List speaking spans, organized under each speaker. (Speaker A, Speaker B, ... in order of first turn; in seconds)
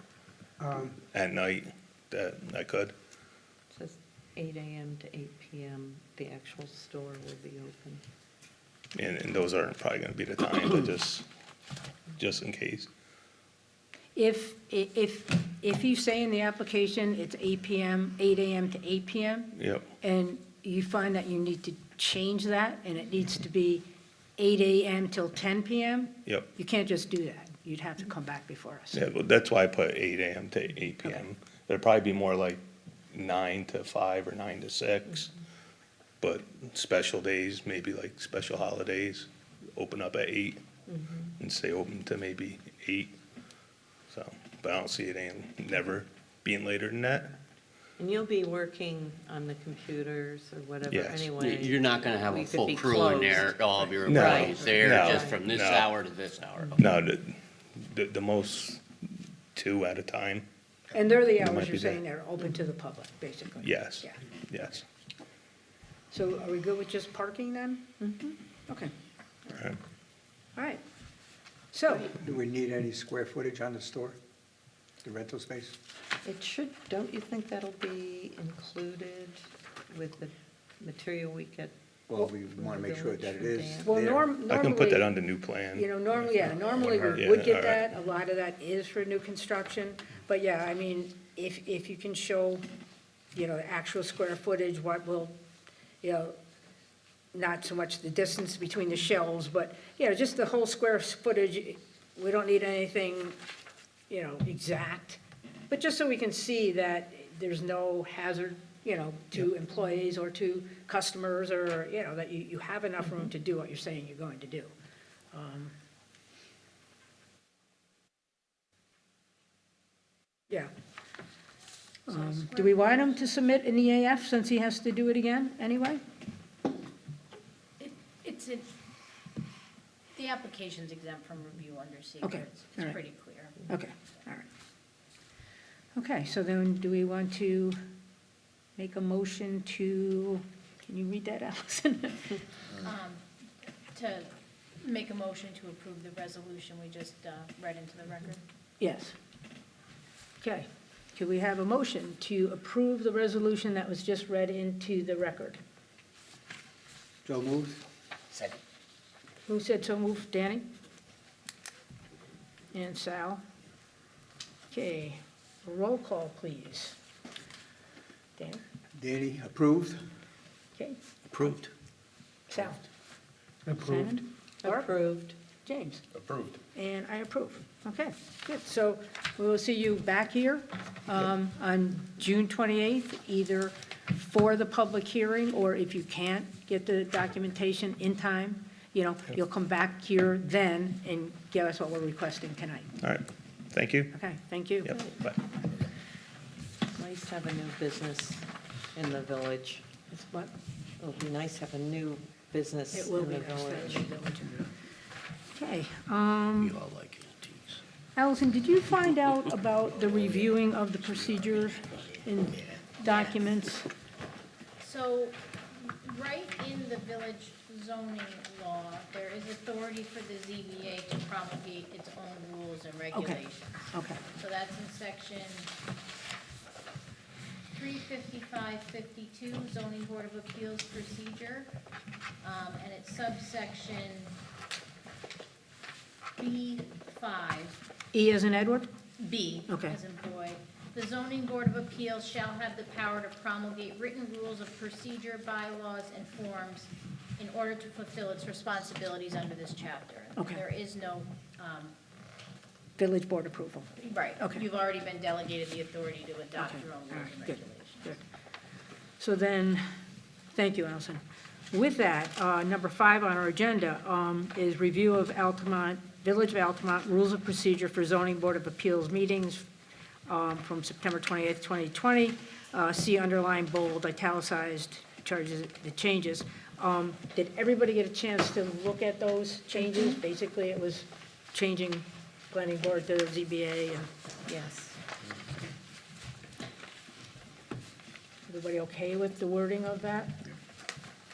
Speaker A: 0.6-0.9, 72.0-74.2, 75.0-75.8, 82.1-84.3, 157.2-157.8, 168.9-170.0, 173.7-174.2
Speaker B: 1.1-2.9, 8.9-11.2, 12.2-12.9, 19.6-19.8, 28.9-32.6, 33.1-35.3, 36.2-40.6, 41.4-43.1, 44.1-47.3, 50.9-51.3, 54.1-55.9, 56.8-58.8, 59.5-60.4, 61.4-62.0, 63.6-64.8, 84.5-85.9, 87.1-87.8, 193.0-194.2, 194.8-195.4
Speaker C: 3.7-8.0, 40.9-41.3, 48.0-55.5, 76.2-81.7, 82.5-83.9, 174.6-175.3, 196.9-204.1, 284.5-285.0
Speaker D: 14.1-23.8, 24.4-29.0, 60.9-64.1, 66.1-68.9, 70.5-70.8, 71.7-72.1, 83.8-85.1, 85.7-92.6, 93.3-95.3, 96.0-96.3, 97.3-103.4, 104.1-114.7, 115.3-115.7, 122.1-126.0, 132.2-133.0, 133.7-134.5, 135.9-137.8, 138.8-142.4, 148.8-149.1, 150.4-155.6, 159.4-160.7, 162.7-163.4, 164.7-166.9, 168.4-168.6, 172.5-172.8, 173.7-174.9, 175.6-176.0, 176.7-192.9, 194.1-194.9, 202.9-204.7, 205.5-206.8, 208.2-213.9, 223.1-224.2, 238.1-238.9, 239.7-240.0, 250.3-250.6, 253.0-254.6, 256.6-258.2, 259.2-259.8, 260.5-269.6, 270.3-284.1, 288.5-290.5
Speaker E: 51.4-56.8, 171.3-171.7, 206.6-207.8
Speaker F: 122.1-123.3, 127.8-128.7, 130.1-133.6, 142.8-143.2, 143.9-144.3, 144.8-148.4, 213.1-213.4, 214.8-225.7, 227.7-231.7, 232.4-234.3, 236.4-237.8, 239.2-251.9, 254.0-258.2